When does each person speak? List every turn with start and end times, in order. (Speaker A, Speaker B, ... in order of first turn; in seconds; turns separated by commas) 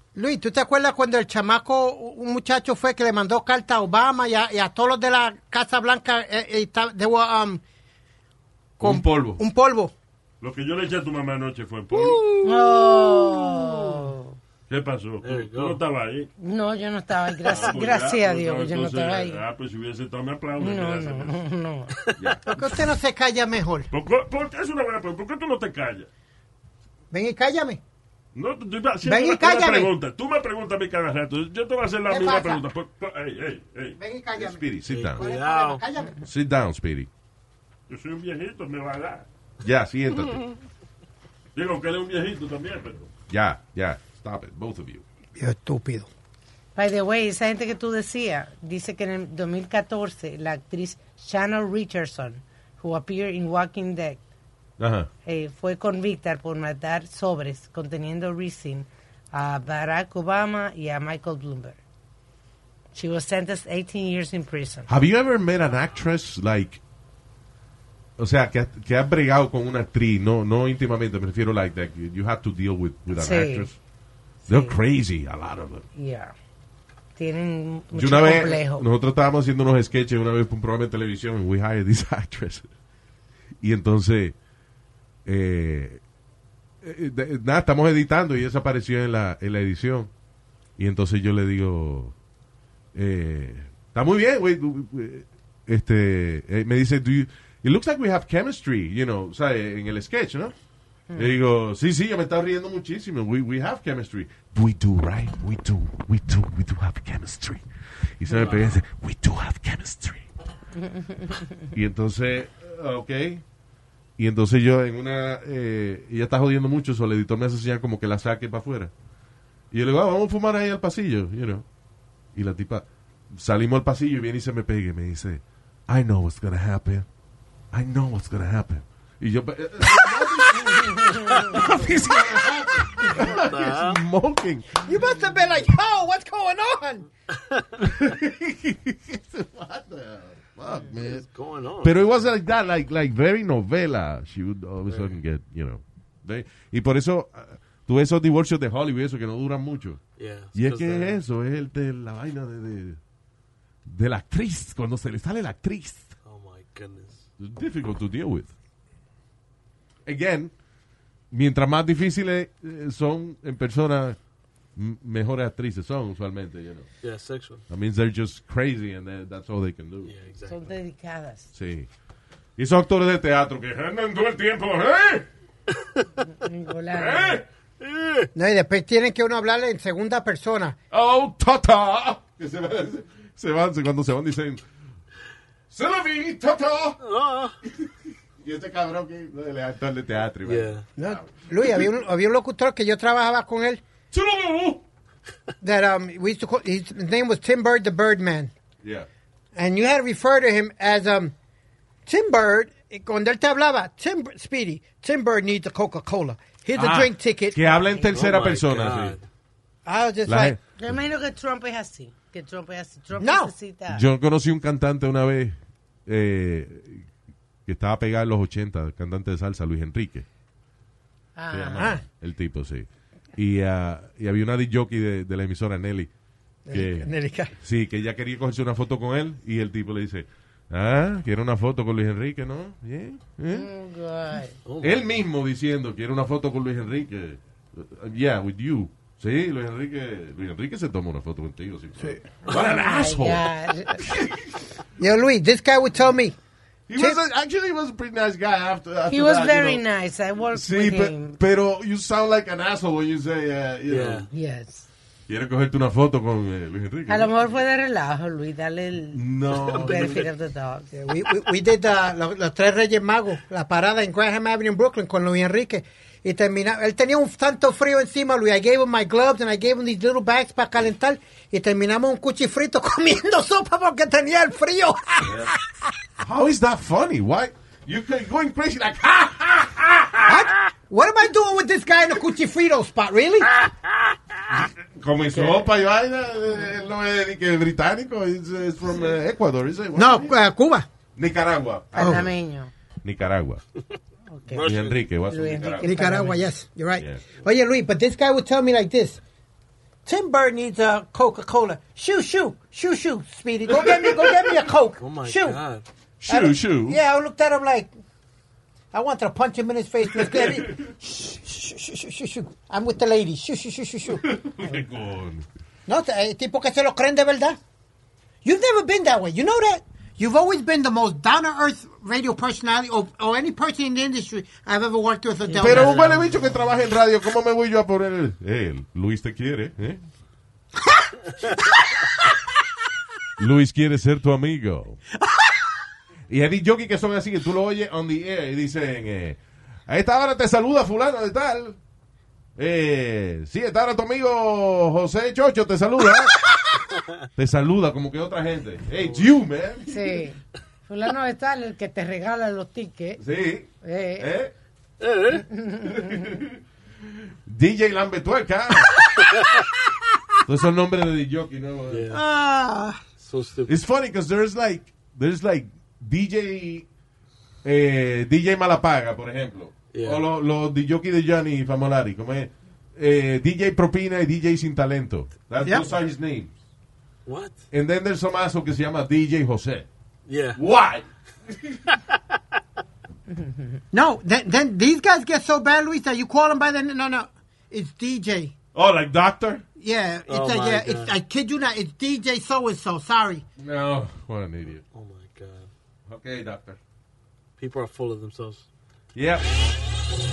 Speaker A: 0.1-7.6, Speaker B: 8.8-9.4, Speaker A: 8.8-9.9, Speaker C: 10.4-12.2, Speaker D: 12.4-14.4, Speaker A: 13.1-13.6, Speaker C: 14.7-16.3, Speaker E: 15.2-15.8, Speaker D: 16.4-19.4, Speaker C: 17.4-21.4, Speaker D: 20.6-21.9, Speaker B: 22.2-22.5, Speaker A: 22.5-23.9, Speaker C: 23.9-26.1, Speaker A: 27.1-27.8, Speaker C: 28.3-34.0, Speaker A: 29.0-29.9, Speaker A: 32.1-32.6, Speaker A: 34.0-36.2, Speaker B: 34.4-35.2, Speaker E: 34.9-35.8, Speaker B: 36.2-37.1, Speaker C: 37.9-39.3, Speaker B: 39.6-40.5, Speaker C: 41.5-43.1, Speaker B: 43.3-45.0, Speaker A: 45.4-46.1, Speaker D: 46.8-54.2, Speaker B: 54.8-55.1, Speaker D: 55.2-61.8, Speaker D: 62.9-64.9, Speaker B: 64.9-66.8, Speaker B: 68.2-73.8, Speaker D: 73.1-73.7, Speaker D: 74.4-74.8, Speaker B: 74.5-75.8, Speaker D: 75.9-76.3, Speaker D: 77.2-78.9, Speaker B: 77.9-82.7, Speaker B: 83.6-84.3, Speaker B: 85.2-86.0, Speaker B: 86.8-90.1, Speaker B: 90.8-92.1, Speaker B: 92.9-100.5, Speaker D: 101.1-101.3, Speaker B: 101.1-107.6, Speaker B: 108.2-110.2, Speaker E: 108.3-108.6, Speaker D: 110.8-111.5, Speaker B: 111.7-113.4, Speaker B: 114.2-118.9, Speaker B: 119.7-121.7, Speaker B: 122.3-127.0, Speaker B: 127.7-134.8, Speaker A: 131.5-133.4, Speaker E: 133.1-134.0, Speaker A: 134.8-137.1, Speaker B: 137.8-141.2, Speaker E: 140.9-142.2, Speaker B: 141.8-150.0, Speaker E: 144.9-145.2, Speaker E: 150.2-151.2, Speaker B: 150.5-153.0, Speaker B: 153.8-156.1, Speaker E: 156.2-157.2, Speaker B: 157.4-158.5, Speaker B: 160.1-160.5, Speaker B: 161.3-164.2, Speaker B: 164.8-166.9, Speaker E: 167.0-167.6, Speaker B: 167.7-170.1, Speaker E: 170.0-170.7, Speaker D: 170.5-171.5, Speaker B: 171.5-171.9, Speaker B: 172.6-175.3, Speaker D: 176.2-177.4, Speaker B: 176.9-177.4, Speaker E: 177.8-178.3, Speaker A: 178.3-180.8, Speaker B: 180.9-184.6, Speaker B: 185.7-187.0, Speaker E: 187.0-187.5, Speaker B: 188.4-191.8, Speaker E: 190.4-190.8, Speaker A: 191.0-193.8, Speaker B: 194.1-194.8, Speaker A: 195.6-198.5, Speaker A: 199.5-201.3, Speaker A: 202.1-207.6, Speaker B: 206.8-209.2, Speaker E: 208.1-209.2, Speaker A: 209.8-210.6, Speaker B: 210.2-210.6, Speaker D: 210.8-214.0, Speaker A: 213.2-213.5, Speaker B: 213.9-217.0, Speaker B: 217.7-220.2, Speaker D: 221.3-221.9, Speaker B: 221.5-226.1, Speaker A: 221.7-222.0, Speaker A: 226.7-227.5, Speaker B: 226.7-233.7, Speaker D: 233.5-234.6, Speaker E: 234.6-235.2, Speaker B: 234.8-244.6, Speaker D: 242.5-244.0, Speaker A: 245.0-246.3, Speaker B: 246.9-249.8, Speaker D: 249.1-251.4, Speaker B: 250.5-254.3, Speaker E: 253.9-254.3, Speaker D: 254.3-254.9, Speaker B: 255.3-257.3, Speaker D: 257.1-260.9, Speaker B: 259.1-260.3, Speaker E: 259.5-260.2, Speaker A: 260.9-275.9, Speaker B: 275.2-275.5, Speaker B: 276.2-280.4, Speaker A: 280.2-283.5, Speaker B: 284.5-290.3, Speaker D: 285.3-285.6, Speaker A: 289.9-290.9, Speaker B: 291.2-292.3, Speaker D: 291.9-292.7, Speaker A: 291.9-292.3, Speaker B: 293.0-293.6, Speaker D: 294.3-294.7, Speaker E: 294.5-295.0, Speaker B: 294.6-296.2, Speaker D: 295.3-296.4, Speaker A: 295.8-299.2, Speaker B: 297.0-297.2, Speaker A: 300.1-305.6, Speaker E: 305.0-305.8, Speaker B: 306.2-307.0, Speaker A: 306.3-307.9, Speaker A: 308.9-314.2, Speaker B: 310.2-310.6, Speaker B: 314.1-315.4, Speaker A: 315.9-317.6, Speaker A: 318.4-326.4, Speaker D: 325.5-325.8, Speaker B: 325.5-330.0, Speaker B: 333.4-335.0, Speaker A: 335.2-335.5, Speaker B: 336.3-341.8, Speaker B: 342.6-346.8, Speaker B: 347.4-350.1, Speaker E: 349.0-349.3, Speaker D: 349.9-353.2, Speaker B: 353.2-354.5, Speaker D: 353.8-354.3, Speaker E: 355.0-355.4, Speaker D: 355.3-356.3, Speaker B: 355.9-356.6, Speaker B: 357.4-359.1, Speaker B: 360.4-362.1, Speaker E: 361.9-362.2, Speaker A: 362.1-363.0, Speaker E: 363.2-363.7, Speaker B: 363.7-366.9, Speaker B: 367.6-376.5, Speaker E: 369.9-370.2, Speaker A: 375.6-375.9, Speaker E: 377.2-377.6, Speaker B: 377.7-379.9, Speaker E: 380.3-380.6, Speaker B: 380.6-381.1, Speaker A: 383.9-388.5, Speaker B: 388.7-389.6, Speaker A: 389.8-393.4, Speaker E: 390.3-391.1, Speaker B: 393.6-394.8, Speaker E: 394.9-395.7, Speaker B: 396.1-396.8, Speaker E: 397.6-398.6, Speaker B: 399.1-399.5